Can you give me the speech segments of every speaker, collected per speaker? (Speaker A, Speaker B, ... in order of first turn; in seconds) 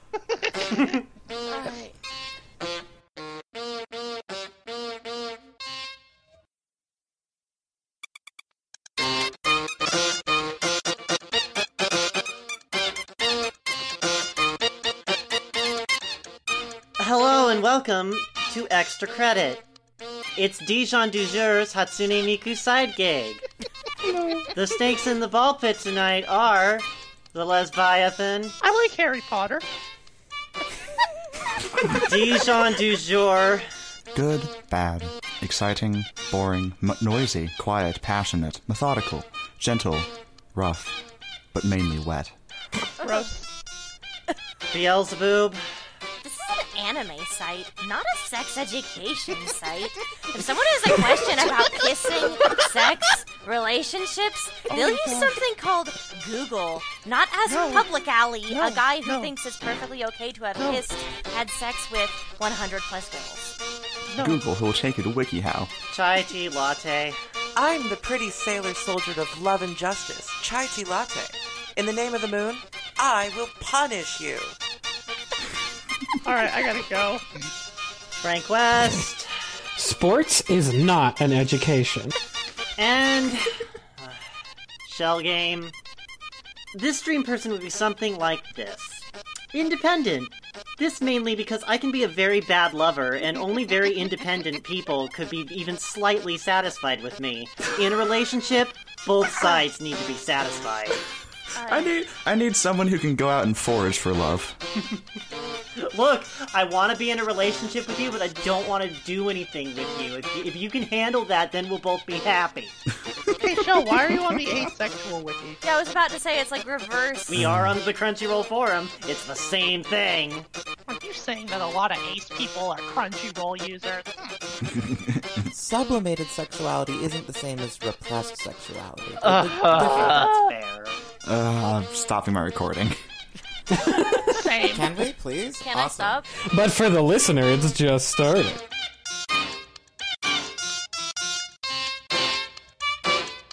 Speaker A: 1.5-1.9, 46.2-63.5, 101.5-101.9, 115.6-117.5, 135.6-136.3
Speaker B: 17.0-19.6, 20.4-23.4, 24.5-28.6, 31.9-33.6, 44.7-45.6, 65.9-67.2, 78.2-79.3, 82.8-84.2, 84.8-85.7, 86.7-101.0, 105.8-112.8, 117.3-120.5, 129.6-131.0
Speaker C: 28.6-29.6, 43.0-43.5, 54.7-55.4, 57.5-57.9, 58.5-59.3, 60.6-60.8, 64.1-64.4, 76.2-77.2, 113.4-115.6, 120.9-124.3, 129.2-130.5, 134.3-134.9
Speaker D: 34.1-41.0, 41.5-42.3, 64.2-65.7, 101.7-104.5, 117.3-117.7, 124.7-125.5, 131.2-132.9
Speaker E: 67.5-74.5, 125.5-130.2, 134.7-136.2
Speaker F: 79.8-82.1, 133.7-134.4, 136.5-138.6